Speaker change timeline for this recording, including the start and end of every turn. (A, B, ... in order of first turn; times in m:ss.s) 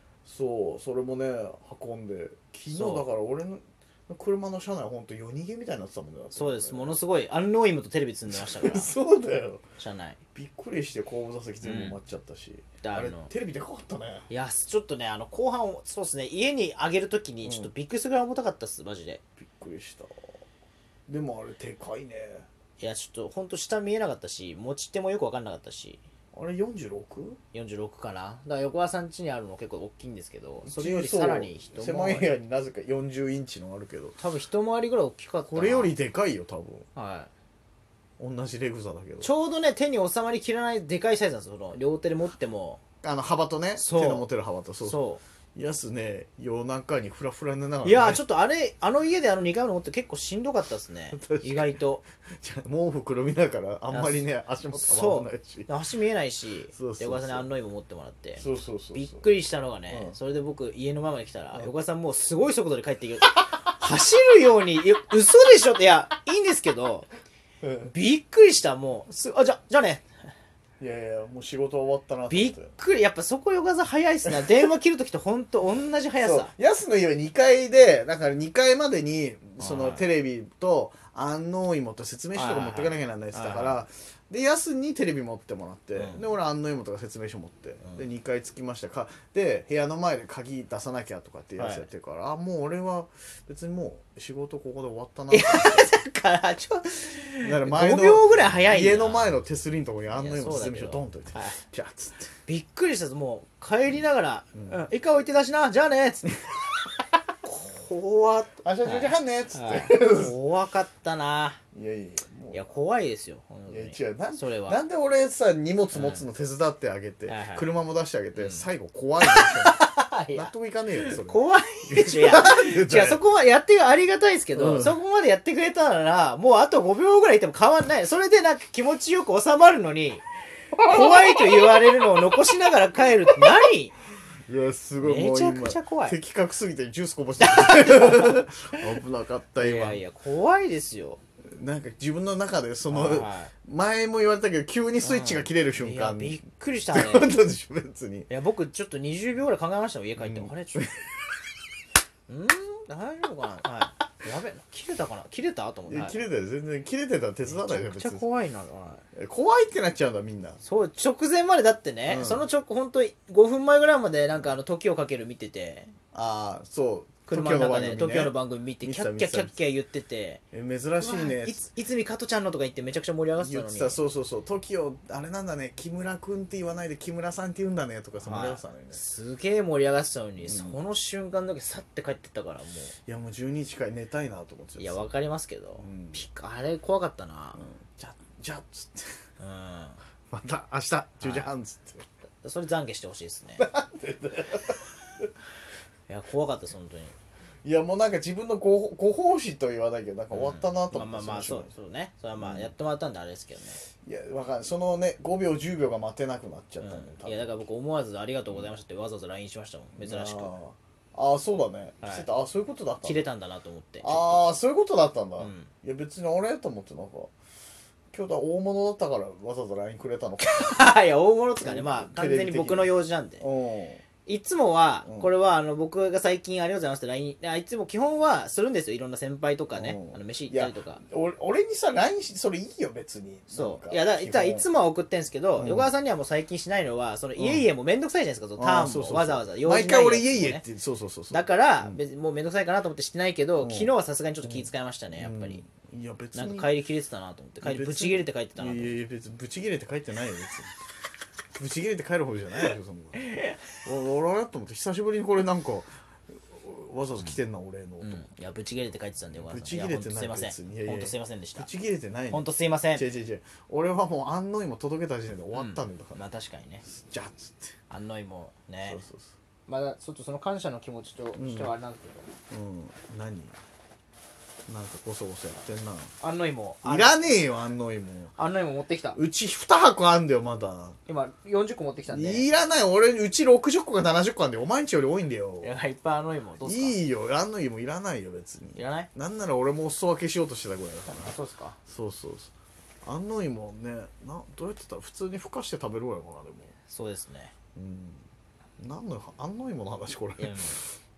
0:00.2-0:07.0 A
0:02.7-0:03.1 B
0:06.3-0:08.9 B
0:08.3-0:09.6 A
0:09.8-0:10.2 B
0:10.3-0:14.3 A
0:11.6-0:12.0 B
0:12.8-0:13.3 B
0:14.3-0:19.2 B
0:17.4-0:17.7 A
0:19.4-0:20.4 A
0:21.1-0:22.5 A
0:22.8-0:26.0 B
0:26.3-0:27.4 A
0:27.5-0:32.3 B
0:30.6-0:34.2 A
0:34.2-0:36.0 B
0:35.5-0:36.9 A
0:37.0-0:37.3 B
0:38.2-0:39.3 A
0:39.2-0:42.8 B
0:43.0-0:45.0 A
0:43.8-0:44.3 B
0:44.8-0:45.2 B
0:45.6-0:48.2 A
0:47.8-0:52.0 B
0:51.1-0:55.7 A
0:53.9-1:07.1 B
0:56.7-0:57.5 A
0:58.4-0:59.3 A
0:59.9-1:00.2 A
1:03.4-1:03.8 A
1:07.6-1:07.9 A
1:07.9-1:10.0 B
1:10.8-1:12.7 A
1:12.3-1:16.5 B
1:16.2-1:35.8 A
1:19.6-1:20.1 B
1:22.4-1:23.8 B
1:26.0-1:26.3 B
1:27.8-1:28.1 B
1:31.6-1:31.9 B
1:35.3-1:39.4 B
1:37.4-1:42.3 A
1:40.1-1:41.6 B
1:42.5-1:46.4 B
1:44.6-1:44.9 A
1:47.4-1:51.6 B
1:48.5-1:50.3 A
1:51.7-1:52.7 A
1:52.5-1:54.8 B
1:53.7-1:59.8 A
1:55.9-1:56.3 B
1:57.3-1:57.7 B
1:58.4-1:58.7 B
1:59.2-2:10.2 B
2:00.3-2:03.2 A
2:04.5-2:05.0 A
2:10.7-2:12.0 A
2:10.8-2:13.9 B
2:14.5-2:20.0 A
2:15.0-2:16.2 B
2:17.4-2:18.8 B
2:19.6-2:21.2 B
2:21.5-2:28.3 A
2:22.9-2:23.5 B
2:25.0-2:27.3 B
2:28.3-2:30.9 B
2:30.2-2:31.0 A
2:32.3-2:36.2 B
2:35.9-2:38.2 A
2:37.5-2:39.0 B
2:39.1-2:40.6 A
2:40.6-2:45.9 B
2:42.1-2:42.5 A
2:46.1-2:49.6 A
2:47.3-2:50.4 B
2:50.5-2:51.7 A
2:51.0-2:54.0 B
2:53.4-2:59.1 A
2:58.2-3:02.9 B
3:00.4-3:00.8 A
3:03.1-3:05.1 A
3:04.8-3:07.6 B
3:05.8-3:06.3 A
3:07.6-3:09.2 A
3:09.4-3:10.0 B
3:10.3-3:12.0 A
3:11.2-3:11.5 B
3:12.4-3:13.6 B
3:13.6-3:15.3 A
3:16.1-3:17.2 B
3:17.6-3:21.7 A
3:20.3-3:23.8 B
3:22.4-3:22.7 A
3:24.0-3:27.6 A
3:26.8-3:30.5 B
3:28.5-3:28.8 A
3:30.0-3:33.2 A
3:32.0-3:32.3 B
3:33.0-3:34.5 B
3:34.0-3:37.3 A
3:35.4-3:35.7 B
3:38.1-3:40.9 A
3:40.4-3:43.4 B
3:41.6-3:44.0 A
3:44.3-3:51.0 B
3:45.0-3:45.3 A
3:49.7-3:54.7 A
3:53.5-4:00.6 B
3:55.6-3:55.9 A
3:57.4-3:57.7 A
3:58.6-4:02.0 A
4:01.3-4:05.6 B
4:03.6-4:06.7 A
4:06.3-4:09.0 B
4:07.6-4:10.7 A
4:11.6-4:13.2 A
4:13.2-4:13.5 B
4:13.8-4:18.3 A
4:18.0-4:21.7 B
4:19.3-4:26.2 A
4:22.3-4:23.1 B
4:25.5-4:26.8 B
4:26.8-4:27.8 A
4:27.9-4:29.0 B
4:28.8-4:29.3 A
4:29.7-4:32.3 B
4:31.4-4:31.7 A
4:32.5-4:33.6 A
4:34.7-4:36.1 A
4:36.2-4:37.4 B
4:36.8-4:38.3 A
4:38.4-4:39.2 B
4:39.2-4:41.0 A
4:41.1-4:42.5 B
4:42.1-4:45.7 A
4:45.6-4:47.0 B
4:46.6-4:52.5 A
4:48.8-4:49.1 B
4:51.1-4:51.8 B
4:53.0-4:56.7 A
4:56.9-4:57.5 B
4:57.8-4:58.3 A
4:58.8-5:00.8 A
5:00.4-5:00.8 B